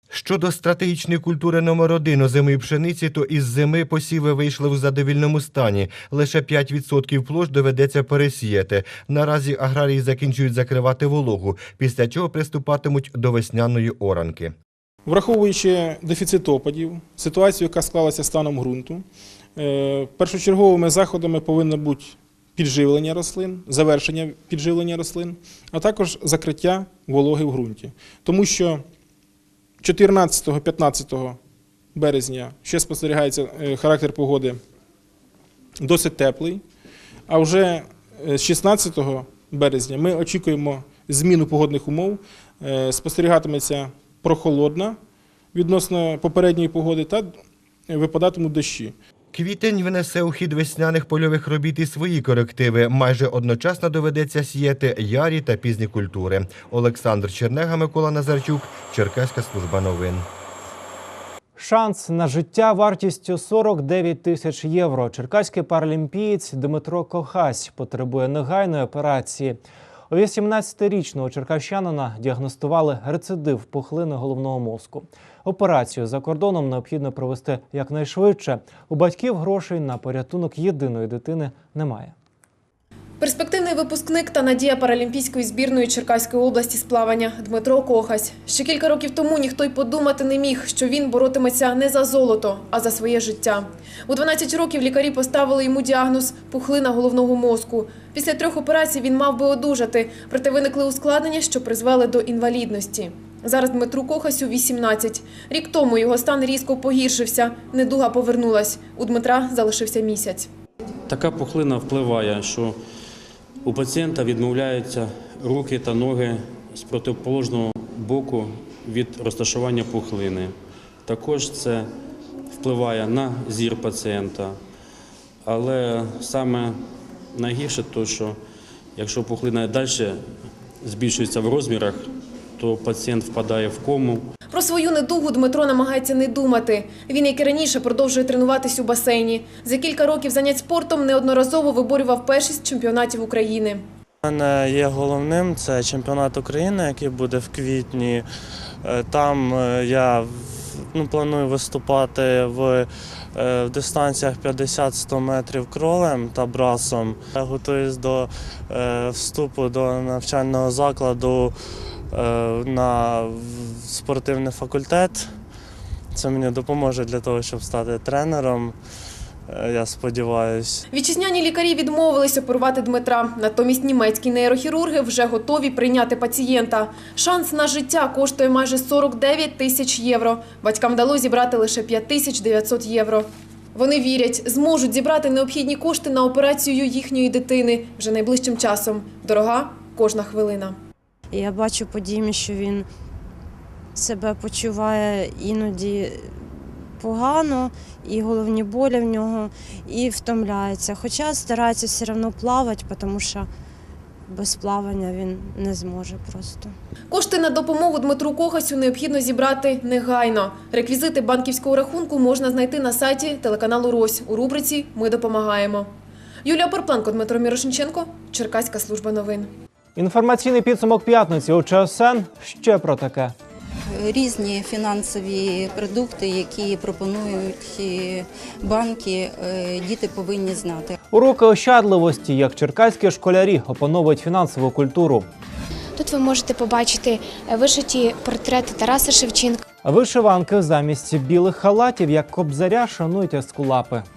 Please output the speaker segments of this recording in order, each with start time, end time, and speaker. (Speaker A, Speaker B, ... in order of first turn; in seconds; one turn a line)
Speaker A: 0.1-14.5
Speaker B: 15.1-19.1
Speaker B: 19.6-28.8
Speaker B: 29.8-31.4
Speaker B: 31.9-34.6
Speaker B: 35.8-36.6
Speaker B: 37.3-45.0
Speaker B: 45.5-49.0
Speaker A: 49.3-60.3
Speaker C: 61.6-69.6
Speaker C: 70.1-82.1
Speaker D: 83.2-110.5
Speaker E: 111.1-112.8
Speaker E: 113.6-121.9
Speaker E: 122.5-124.6
Speaker E: 125.4-126.8
Speaker E: 127.3-128.4
Speaker E: 129.0-134.3
Speaker D: 134.5-143.8
Speaker F: 144.2-148.3
Speaker F: 148.8-161.6
Speaker F: 162.1-165.4
Speaker F: 166.1-168.8
Speaker F: 169.5-170.8
Speaker D: 170.9-190.8
Speaker G: 191.3-192.9
Speaker G: 193.9-203.5
Speaker G: 204.3-206.7
Speaker D: 207.1-215.9
Speaker D: 216.4-219.5
Speaker C: 220.0-223.3
Speaker H: 223.9-231.0
Speaker C: 231.1-235.3
Speaker I: 236.0-239.6
Speaker C: 239.8-244.1